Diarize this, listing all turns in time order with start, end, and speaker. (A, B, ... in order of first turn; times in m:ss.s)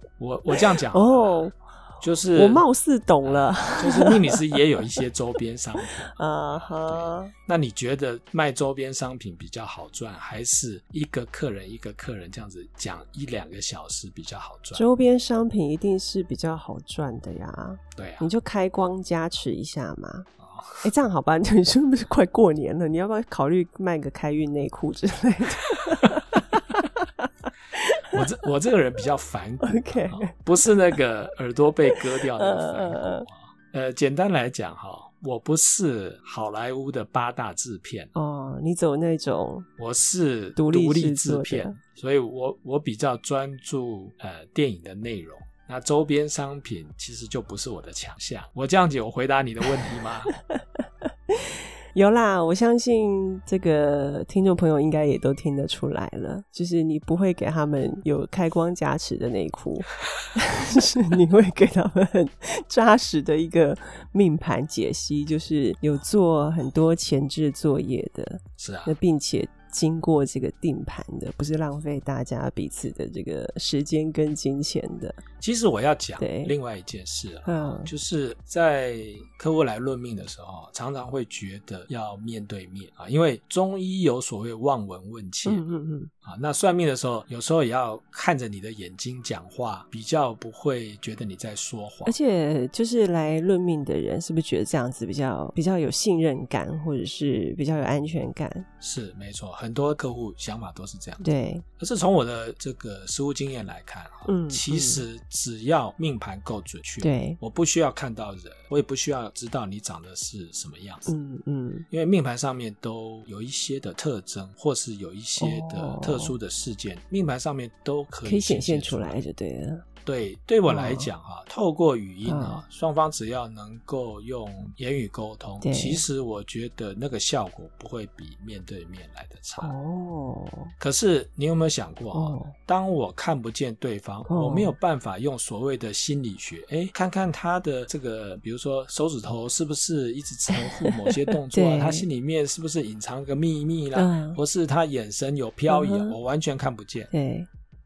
0:00.2-0:02.7 A
0:00.5-0:01.6 B
0:02.3-0:05.0 B
0:03.2-0:14.8 A
0:06.0-0:07.3 B
0:14.7-0:20.3 B
0:18.0-0:18.3 A
0:20.4-0:20.9 A
0:20.8-0:28.2 B
0:28.1-0:38.1 A
0:29.6-0:30.4 B
0:31.9-0:33.3 B
0:38.1-0:39.7 B
0:39.8-0:50.3 A
0:40.6-0:41.8 B
0:51.3-1:15.2 B
1:08.6-1:08.9 A
1:15.4-1:25.6 A
1:16.2-1:16.5 B
1:17.5-1:17.9 B
1:25.4-1:26.1 B
1:26.2-1:32.2 A
1:32.0-1:38.7 B
1:38.8-1:51.1 A
1:41.2-1:41.6 B
1:44.3-1:45.0 B
1:47.0-1:47.4 B
1:51.1-1:51.9 B
1:51.9-1:59.3 A
1:55.4-1:56.4 B
1:58.2-1:59.8 B
2:00.0-2:09.8 A
2:00.7-2:01.1 B
2:02.2-2:02.6 B
2:05.6-2:06.0 B
2:09.6-2:10.7 B
2:10.8-2:27.1 A
2:12.1-2:12.6 B
2:14.3-2:14.8 B
2:20.5-2:22.1 B
2:24.0-2:24.4 B
2:25.7-2:26.2 B
2:27.1-2:27.5 B